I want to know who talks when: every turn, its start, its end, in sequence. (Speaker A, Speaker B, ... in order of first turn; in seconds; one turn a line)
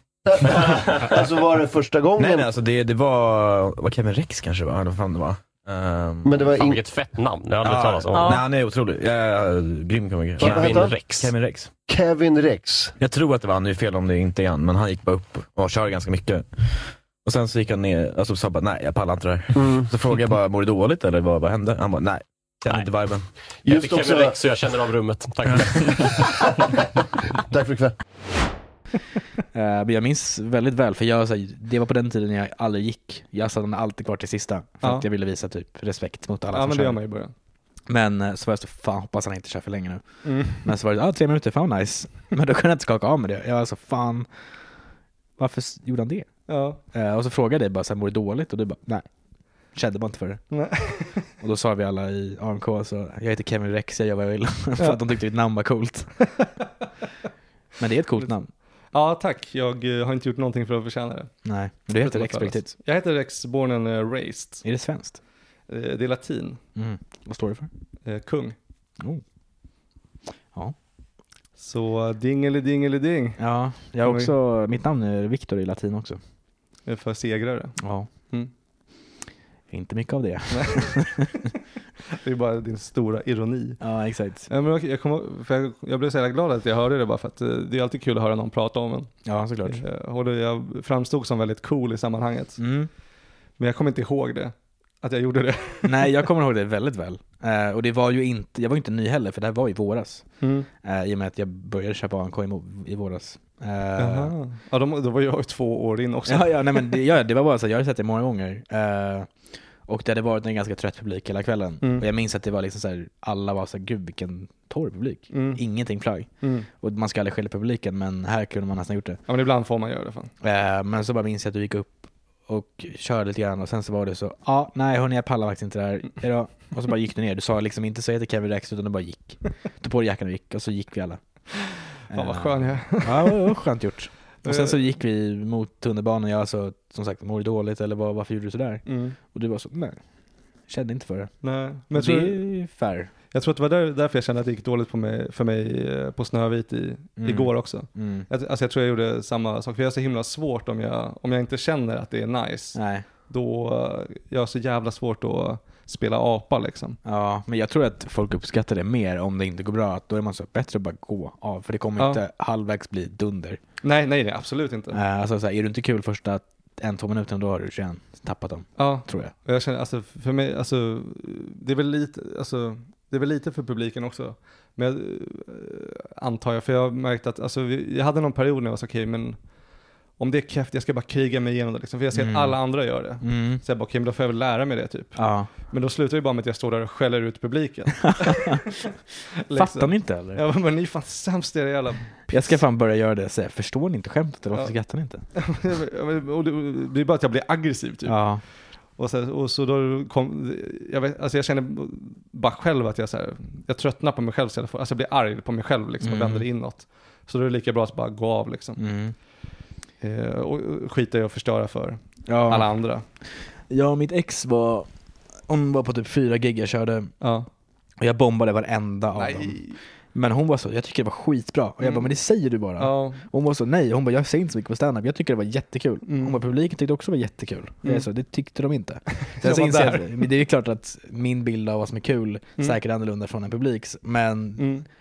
Speaker A: 0.3-2.5
Speaker B: 0.4-1.2
Speaker B: 2.2-6.5
Speaker A: 6.3-6.8
Speaker C: 6.5-8.4
Speaker B: 7.7-11.7
Speaker A: 10.4-11.1
Speaker C: 10.4-11.3
Speaker A: 11.9-12.9
Speaker B: 13.0-23.3
Speaker A: 19.6-19.9
Speaker C: 23.6-26.5
Speaker A: 23.6-24.4
Speaker A: 27.5-28.0
Speaker D: 29.5-37.0
Speaker E: 36.5-37.3
Speaker D: 37.9-44.3
Speaker E: 40.2-40.7
Speaker D: 45.4-46.3
Speaker E: 46.5-46.8
Speaker D: 46.9-49.1
Speaker D: 49.7-50.4
Speaker E: 50.5-51.3
Speaker D: 51.4-56.1
Speaker E: 56.3-56.6
Speaker D: 57.8-58.5
Speaker E: 58.9-61.3
Speaker D: 61.4-62.7
Speaker E: 62.0-64.6
Speaker D: 64.6-65.2
Speaker E: 65.7-66.6
Speaker D: 66.8-67.7
Speaker E: 68.0-68.6
Speaker E: 71.6-73.4
Speaker D: 73.4-76.2
Speaker E: 74.0-74.3
Speaker E: 76.9-78.5
Speaker D: 77.8-78.1
Speaker D: 79.7-81.5
Speaker E: 80.5-81.2
Speaker E: 82.1-83.8
Speaker D: 83.8-84.5
Speaker E: 84.5-89.1
Speaker D: 89.2-89.8
Speaker E: 89.7-92.6
Speaker D: 92.6-92.9
Speaker E: 93.6-96.2
Speaker D: 95.8-104.3
Speaker E: 100.4-100.7
Speaker E: 104.0-107.0
Speaker D: 106.3-119.2
Speaker E: 111.8-112.1
Speaker E: 115.3-115.6
Speaker E: 116.4-116.7
Speaker E: 119.3-120.3
Speaker D: 120.4-131.2
Speaker D: 132.1-140.0
Speaker E: 132.1-133.4
Speaker E: 134.4-134.8
Speaker E: 138.9-139.2
Speaker D: 140.7-141.3
Speaker E: 141.4-142.4
Speaker D: 141.9-143.1
Speaker E: 143.3-157.0
Speaker D: 147.2-148.3
Speaker D: 152.8-153.1
Speaker D: 157.1-163.6
Speaker E: 162.0-162.2
Speaker E: 163.8-165.0
Speaker D: 164.9-169.3
Speaker E: 168.8-179.5
Speaker E: 180.2-188.9
Speaker D: 182.1-183.6
Speaker D: 185.2-185.5
Speaker D: 188.1-188.6
Speaker E: 189.4-192.6
Speaker D: 189.5-190.4
Speaker D: 192.3-195.2
Speaker E: 195.3-198.3
Speaker D: 198.1-198.4
Speaker E: 198.9-208.8
Speaker D: 206.0-206.4
Speaker D: 208.8-209.2
Speaker E: 210.0-213.0
Speaker D: 212.3-212.8
Speaker D: 213.5-214.9
Speaker D: 215.5-217.1
Speaker E: 217.2-217.5
Speaker D: 218.0-234.8
Speaker E: 219.2-219.8
Speaker E: 221.8-222.1
Speaker E: 222.8-223.2
Speaker E: 226.1-226.4
Speaker E: 229.2-230.3
Speaker E: 234.6-234.8